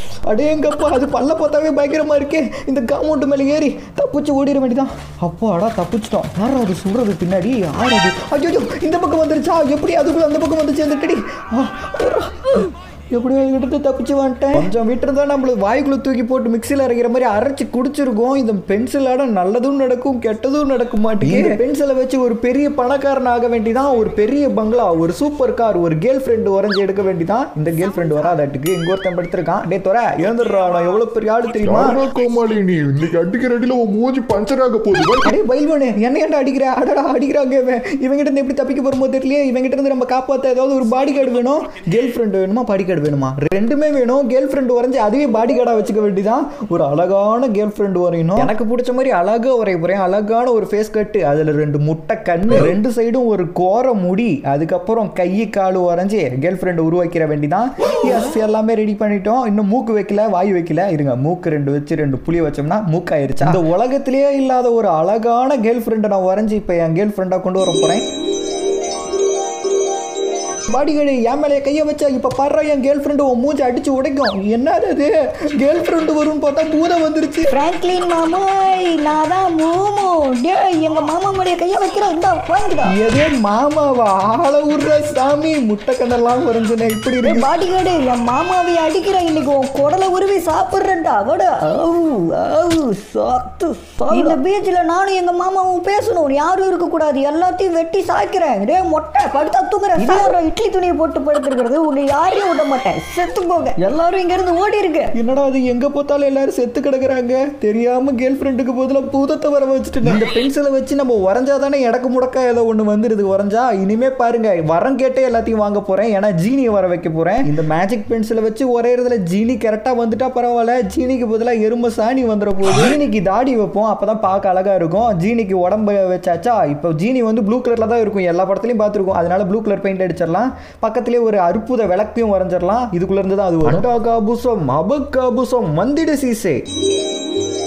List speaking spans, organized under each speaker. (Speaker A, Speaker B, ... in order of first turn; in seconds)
Speaker A: 0.3-32.0, 35.2-68.0, 70.7-77.5, 82.9-87.5, 105.1-136.6
Speaker B: 31.6-35.3
Speaker C: 77.5-82.9, 87.2-105.1